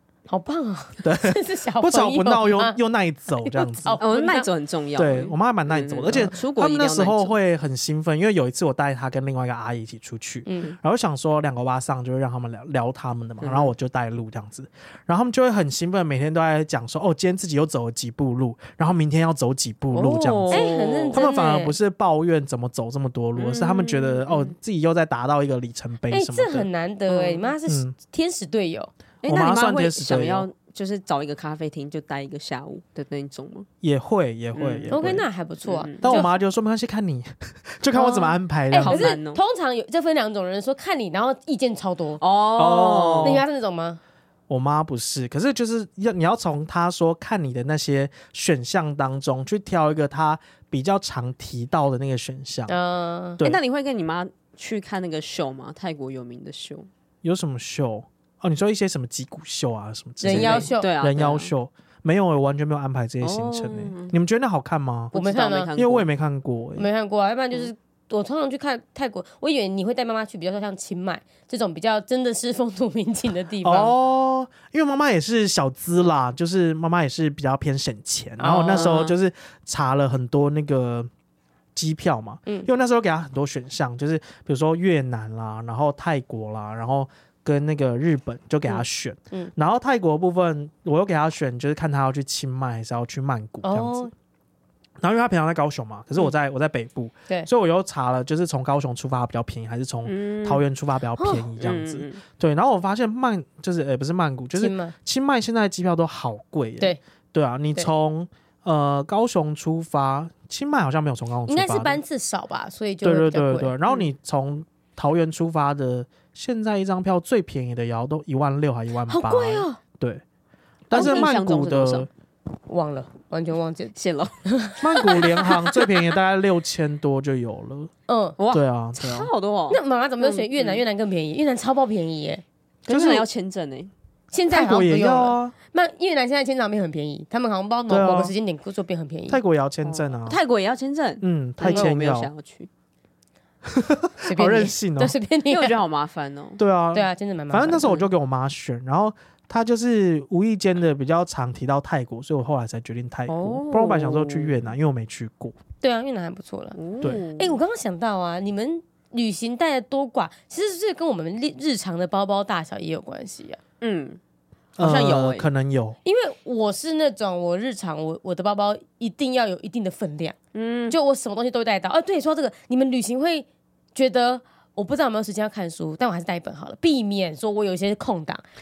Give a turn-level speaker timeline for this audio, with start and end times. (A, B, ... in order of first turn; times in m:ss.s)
0:00.3-0:02.8 A
0:01.0-0:04.0 B
0:03.4-0:04.5 A
0:04.0-0:07.4 C
0:04.9-0:26.7 B
0:10.4-0:10.8 A
0:13.4-0:13.7 C
0:19.9-0:21.3 C
0:20.5-0:21.7 A
0:23.4-0:24.5 C
0:26.1-0:28.9 A
0:27.1-0:27.5 C
0:27.7-0:27.9 B
0:29.2-0:33.7 C
0:29.2-0:30.5 B
0:33.8-0:35.2 B
0:34.5-0:35.1 C
0:34.9-0:36.3 A
0:35.6-0:36.2 C
0:36.0-0:39.0 B
0:37.9-0:42.2 A
0:38.8-0:39.4 C
0:42.2-0:43.4 C
0:42.6-0:43.4 B
0:43.2-0:44.0 A
0:44.5-0:52.7 B
0:52.7-0:53.4 A
0:53.4-0:56.9 C
0:57.2-1:05.1 B
1:00.2-1:00.9 A
1:00.3-1:01.5 C
1:03.2-1:04.2 C
1:05.1-1:06.0 C
1:05.1-1:05.7 A
1:05.7-1:06.9 B
1:06.8-1:13.9 A
1:13.6-1:21.1 B
1:18.4-1:19.1 A
1:21.8-1:34.1 B
1:33.6-1:34.1 A
1:35.0-1:52.0 B
1:40.0-1:40.6 C
1:41.2-1:41.4 A
1:41.6-1:42.2 C
1:44.6-1:44.9 A
1:51.5-1:53.7 A
1:53.0-2:00.2 B
1:59.1-1:59.8 A
2:00.9-2:02.1 B
2:00.9-2:01.3 A
2:00.9-2:02.1 C
2:02.7-2:05.9 A
2:03.9-2:04.4 C
2:04.8-2:07.9 B
2:08.1-2:08.4 A
2:08.4-2:10.8 C
2:08.5-2:09.3 B
2:09.7-2:12.4 A
2:12.8-2:13.9 C
2:12.9-2:13.3 B
2:14.3-2:19.4 A
2:14.5-2:15.5 B
2:17.9-2:18.3 B
2:19.3-2:20.4 B
2:19.8-2:22.7 C
2:21.2-2:22.3 B
2:23.7-2:25.1 B
2:24.2-2:25.8 A
2:25.5-2:26.6 C
2:26.6-2:35.6 B
2:26.9-2:27.9 A
2:33.3-2:34.7 C
2:35.8-2:36.8 A
2:36.7-2:37.6 C
2:37.3-2:43.6 A
2:43.8-2:44.2 C
2:44.8-2:45.5 C
2:44.8-2:46.0 B
2:46.0-2:50.4 A
2:50.5-2:51.0 C
2:50.9-2:58.4 A